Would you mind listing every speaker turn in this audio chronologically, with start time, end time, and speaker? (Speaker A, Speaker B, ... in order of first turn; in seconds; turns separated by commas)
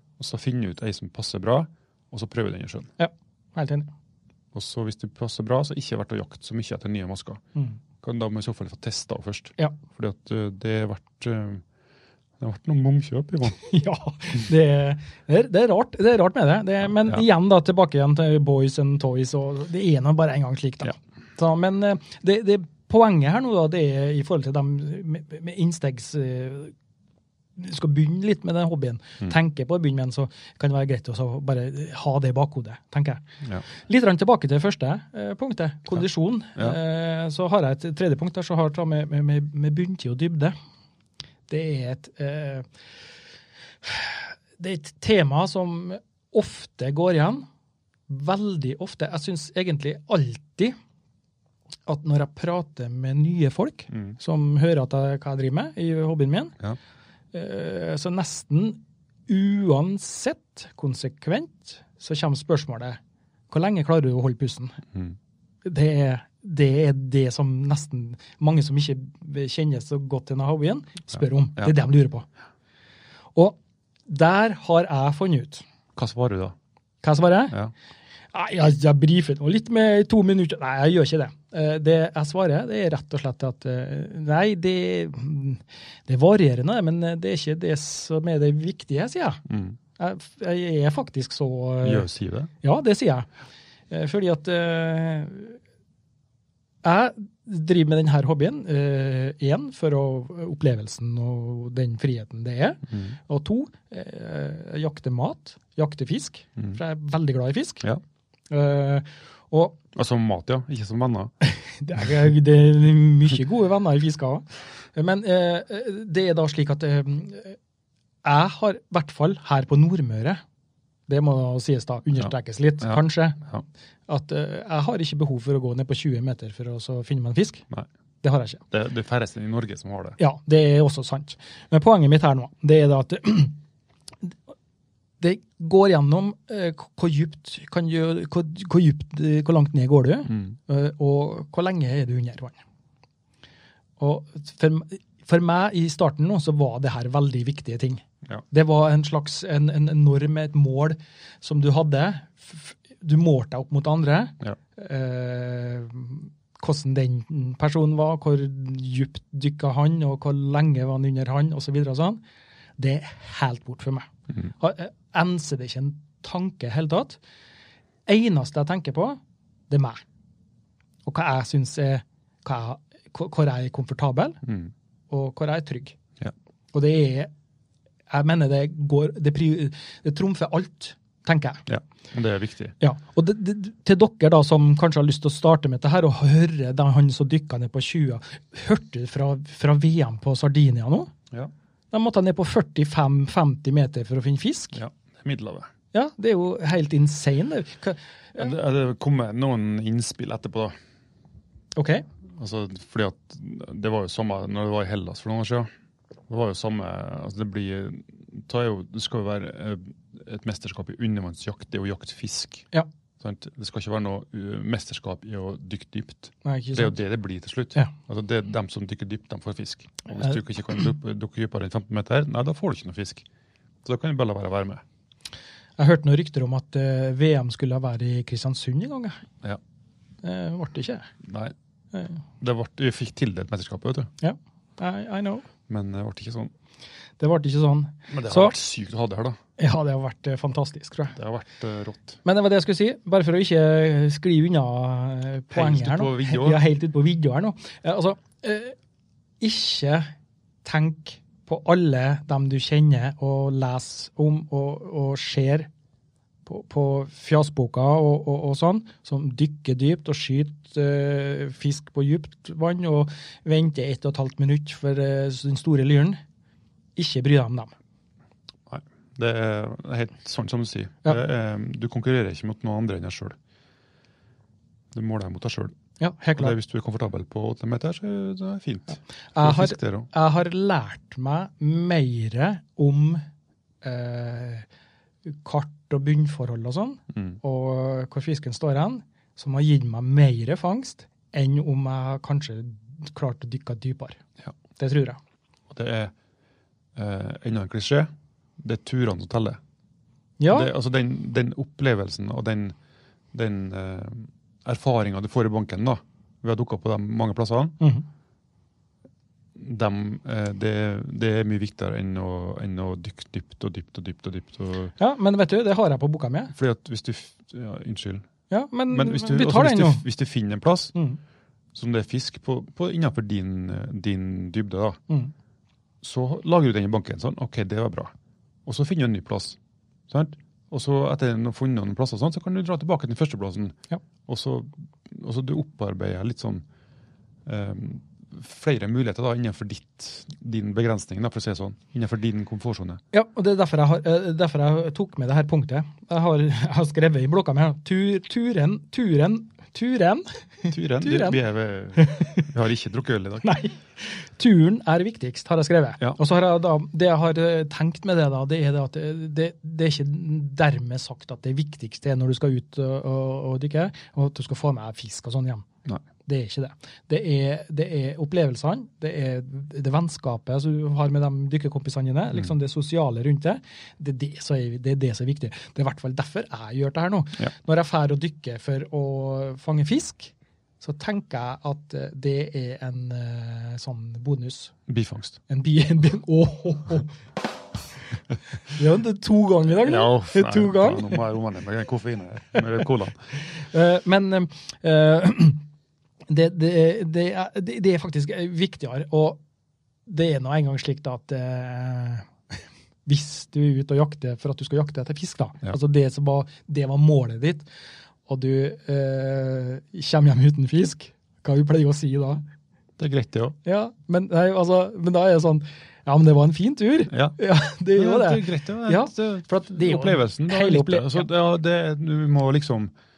Speaker A: 0.2-2.9, Speaker B: 3.0-3.9, Speaker A: 4.5-7.4, Speaker A: 8.0-11.6, Speaker A: 12.4-13.6, Speaker B: 13.6-26.7, Speaker B: 27.6-40.5, Speaker B: 41.5-42.7, Speaker B: 43.8-47.5, Speaker B: 48.1-50.8, Speaker B: 51.9-56.6, Speaker B: 57.3-63.0, Speaker B: 63.5-64.8, Speaker B: 65.6-72.3, Speaker B: 73.4-75.6, Speaker A: 76.0-76.5, Speaker B: 77.0-77.6, Speaker B: 78.3-89.4, Speaker A: 89.5-89.8, Speaker B: 90.0-92.1, Speaker A: 91.8-92.5, Speaker B: 92.6-93.3, Speaker B: 93.9-95.6, Speaker B: 96.8-107.9, Speaker B: 108.5-109.8, Speaker A: 109.9-111.3, Speaker B: 111.4-117.6, Speaker B: 118.2-120.4, Speaker B: 121.1-123.4, Speaker A: 122.8-123.6, Speaker B: 124.1-127.7, Speaker B: 128.2-128.6, Speaker A: 128.7-130.2, Speaker B: 130.2-133.6, Speaker B: 135.2-142.6, Speaker B: 144.0-162.2, Speaker B: 162.8-167.2, Speaker B: 168.1-169.2, Speaker B: 169.7-170.0, Speaker B: 171.1-174.4, Speaker A: 174.5-174.7, Speaker B: 175.1-176.0, Speaker B: 176.7-177.3, Speaker B: 178.1-181.6, Speaker A: 181.7-182.8, Speaker B: 182.8-191.1, Speaker B: 191.9-194.8, Speaker A: 194.7-195.7, Speaker B: 195.9-198.4, Speaker A: 198.4-200.8, Speaker B: 201.8-202.1, Speaker A: 202.4-205.7, Speaker A: 206.3-212.7, Speaker A: 213.2-223.3, Speaker B: 216.4-217.0, Speaker A: 223.8-224.8, Speaker B: 225.8-229.2, Speaker B: 230.2-231.1, Speaker A: 231.2-231.5, Speaker B: 231.9-232.2, Speaker A: 232.4-234.1, Speaker B: 234.2-235.5, Speaker A: 235.7-236.5, Speaker B: 237.2-238.6, Speaker A: 238.1-239.4, Speaker B: 239.6-241.2, Speaker A: 241.2-242.2, Speaker B: 242.2-248.8, Speaker A: 245.5-246.6, Speaker B: 249.4-250.1, Speaker B: 250.6-255.7, Speaker B: 256.5-266.2, Speaker B: 267.0-267.7, Speaker A: 268.7-273.4, Speaker A: 274.9-275.8, Speaker B: 276.0-276.6, Speaker A: 276.4-280.1, Speaker B: 279.4-283.2, Speaker B: 283.8-284.7, Speaker B: 285.3-294.2, Speaker B: 294.8-295.2, Speaker A: 295.7-296.1, Speaker A: 297.0-299.6, Speaker B: 300.4-300.7, Speaker A: 300.5-302.8, Speaker A: 303.3-307.8, Speaker B: 307.8-308.1, Speaker A: 309.6-314.9, Speaker B: 315.0-316.5, Speaker A: 316.5-318.3, Speaker B: 318.5-320.0, Speaker A: 318.9-320.9, Speaker A: 321.8-325.0, Speaker A: 326.0-328.1, Speaker A: 328.7-329.6, Speaker A: 330.1-336.6, Speaker A: 337.5-343.0, Speaker B: 343.1-351.4, Speaker A: 350.7-353.5, Speaker B: 352.0-352.4, Speaker B: 353.4-365.7, Speaker B: 366.2-384.8, Speaker A: 384.9-385.4, Speaker B: 385.5-387.1, Speaker B: 388.7-391.2, Speaker A: 389.8-393.2, Speaker B: 393.6-395.6, Speaker B: 396.3-399.4, Speaker B: 400.1-402.3, Speaker B: 403.1-407.7, Speaker B: 408.3-412.4, Speaker A: 413.0-413.6, Speaker B: 413.6-421.3, Speaker A: 417.1-417.4, Speaker A: 417.9-422.9